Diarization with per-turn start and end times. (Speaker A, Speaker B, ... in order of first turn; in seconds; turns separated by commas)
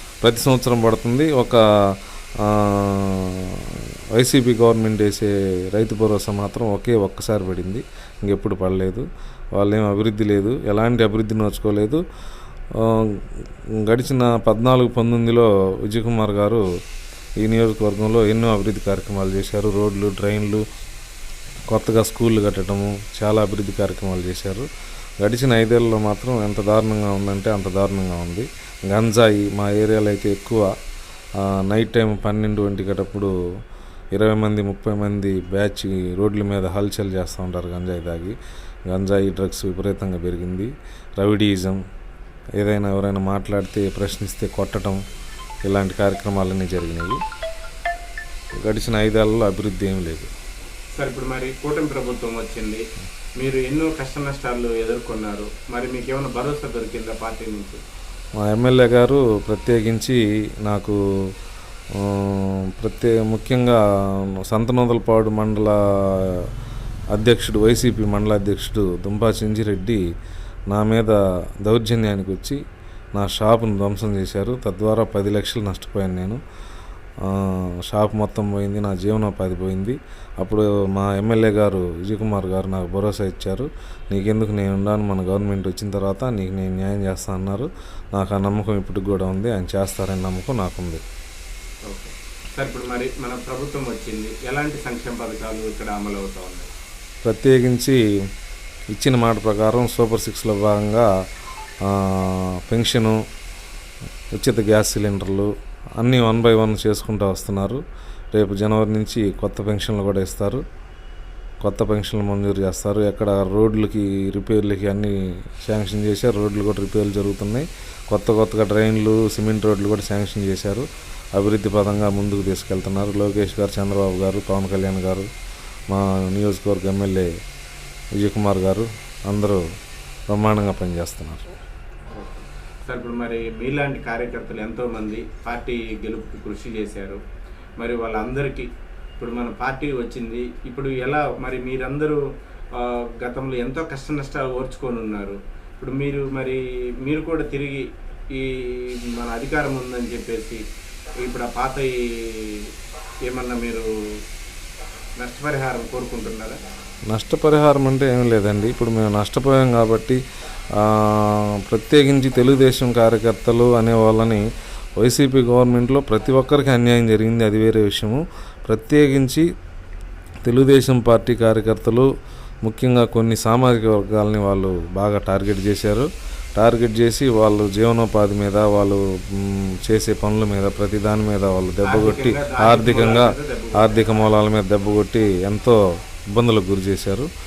Speaker A: 0.2-12.0, Speaker A: 12.8-13.3, Speaker A: 13.8-16.6, Speaker A: 17.4-20.6, Speaker A: 21.7-24.7, Speaker A: 25.2-30.7, Speaker A: 31.4-33.3, Speaker A: 34.1-38.4, Speaker A: 38.9-41.8, Speaker A: 42.6-45.0, Speaker A: 45.6-47.2, Speaker A: 48.6-50.3, Speaker B: 51.0-52.9, Speaker B: 53.4-57.8, Speaker A: 58.4-61.0, Speaker A: 62.0-66.5, Speaker A: 67.1-70.0, Speaker A: 70.7-72.6, Speaker A: 73.2-76.4, Speaker A: 77.2-91.0, Speaker B: 91.9-96.7, Speaker A: 97.2-98.0, Speaker A: 98.9-101.1, Speaker A: 101.8-103.2, Speaker A: 104.3-107.8, Speaker A: 108.3-110.6, Speaker A: 111.6-125.3, Speaker A: 125.9-127.3, Speaker A: 128.2-129.6, Speaker A: 130.3-131.4, Speaker B: 132.1-137.2, Speaker B: 137.8-142.2, Speaker B: 142.7-150.6, Speaker B: 151.2-152.7, Speaker B: 153.3-153.9, Speaker B: 155.2-156.6, Speaker A: 157.1-160.2, Speaker A: 160.8-164.4, Speaker A: 165.0-169.4, Speaker A: 170.4-172.1, Speaker A: 172.7-185.8, Speaker B: 181.8-184.1, Speaker A: 186.3-187.3